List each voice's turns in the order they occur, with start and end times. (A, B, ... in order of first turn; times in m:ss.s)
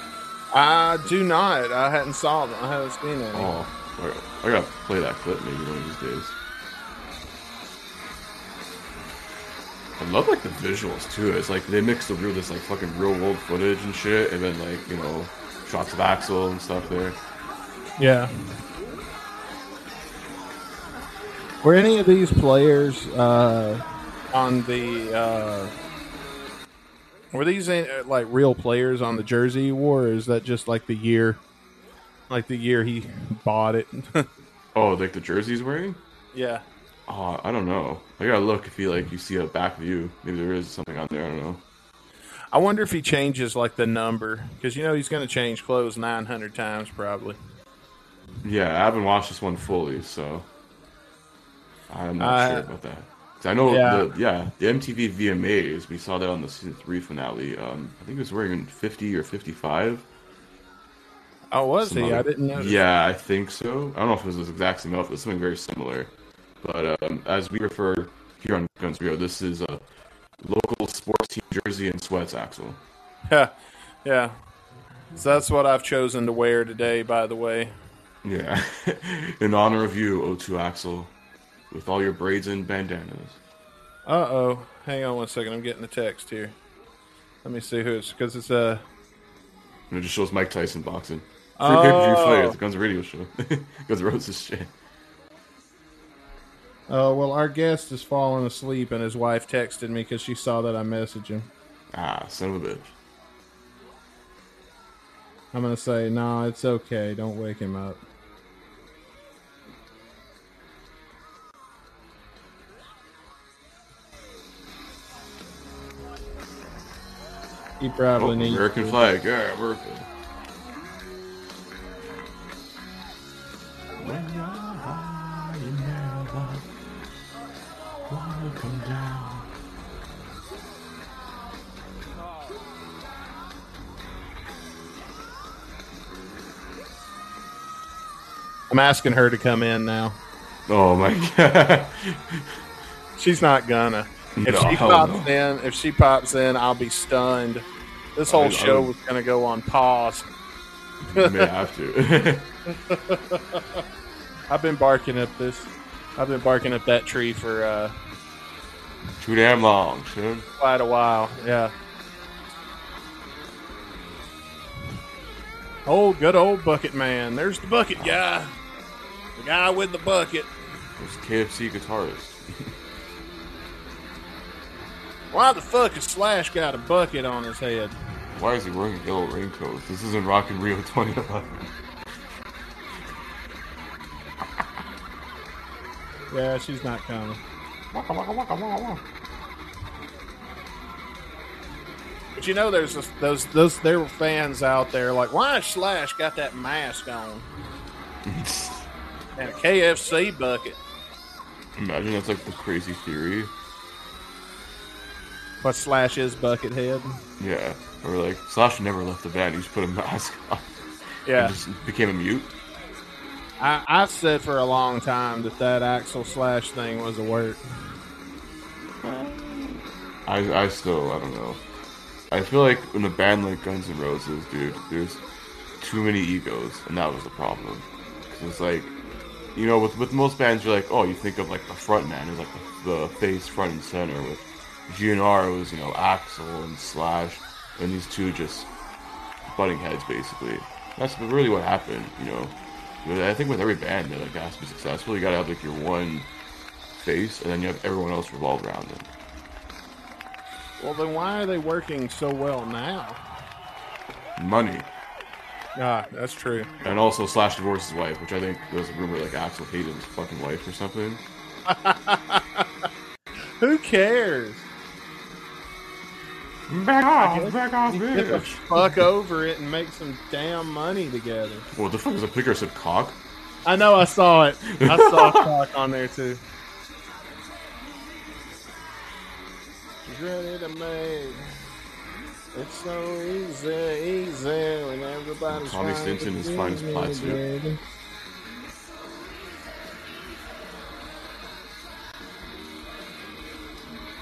0:00.5-0:03.5 A
0:03.3-0:06.4 B
0:10.0-0:17.2 B
0:18.0-0:18.3 A
0:21.6-0:25.7 A
0:27.3-0:31.4 A
0:32.3-0:34.3 A
0:34.7-0:36.0 B
0:36.3-0:36.6 A
0:37.1-0:41.6 B
0:42.5-0:47.4 A
0:48.4-0:50.5 B
0:51.9-1:00.0 B
0:52.2-0:52.6 A
0:53.7-0:54.1 A
1:01.5-1:02.8 A
1:01.8-1:09.8 B
1:10.4-1:12.8 B
1:14.0-1:14.4 A
1:15.1-1:17.7 A
1:18.2-1:21.1 B
1:21.7-1:23.4 B
1:24.0-1:26.5 A
1:27.4-1:28.8 A
1:29.9-1:34.7 B
1:31.6-1:32.6 A
1:36.9-1:41.5 A
1:41.9-1:42.9 B
1:45.5-1:48.0 A
1:57.8-1:59.0 A
1:58.2-2:00.1 B
2:04.0-2:06.6 B
2:08.1-2:09.5 B
2:18.7-2:20.2 A
2:20.7-2:22.5 B
2:23.2-2:27.6 A
2:24.4-2:25.3 B
2:28.2-2:30.3 A
2:28.3-2:28.9 B
2:31.1-2:32.5 B
2:31.1-2:31.5 A
2:32.7-2:33.6 A
2:34.5-2:37.9 A
2:39.2-2:40.5 B
2:40.6-2:41.7 A
2:45.8-2:48.5 A
2:49.4-2:50.5 A
2:51.0-2:52.7 B
2:55.3-2:57.9 A
2:58.3-3:01.7 B
3:06.3-3:07.4 A
3:07.9-3:09.0 B
3:12.4-3:17.5 A
3:18.2-3:18.9 B
3:19.4-3:20.8 A
3:21.8-3:23.5 B
3:25.6-3:27.2 A
3:27.4-3:30.7 B
3:31.2-3:31.6 A
3:31.3-3:32.5 B
3:33.6-3:37.6 A
3:39.0-3:41.6 B
3:42.3-3:45.2 B
3:45.8-3:48.9 B
3:49.5-3:58.7 B
3:59.5-4:06.3 B
4:07.0-4:09.1 B
4:10.8-4:13.2 A
4:14.4-4:14.9 B
4:15.8-4:16.7 A
4:16.8-4:21.2 B
4:21.6-4:22.7 A
4:23.6-4:24.6 A
4:26.7-4:28.9 B
4:27.2-4:31.7 A
4:31.7-4:33.2 B
4:33.6-4:36.4 A
4:34.7-4:35.4 B
4:40.0-4:41.5 A
4:42.5-4:47.8 A
4:45.5-4:47.4 B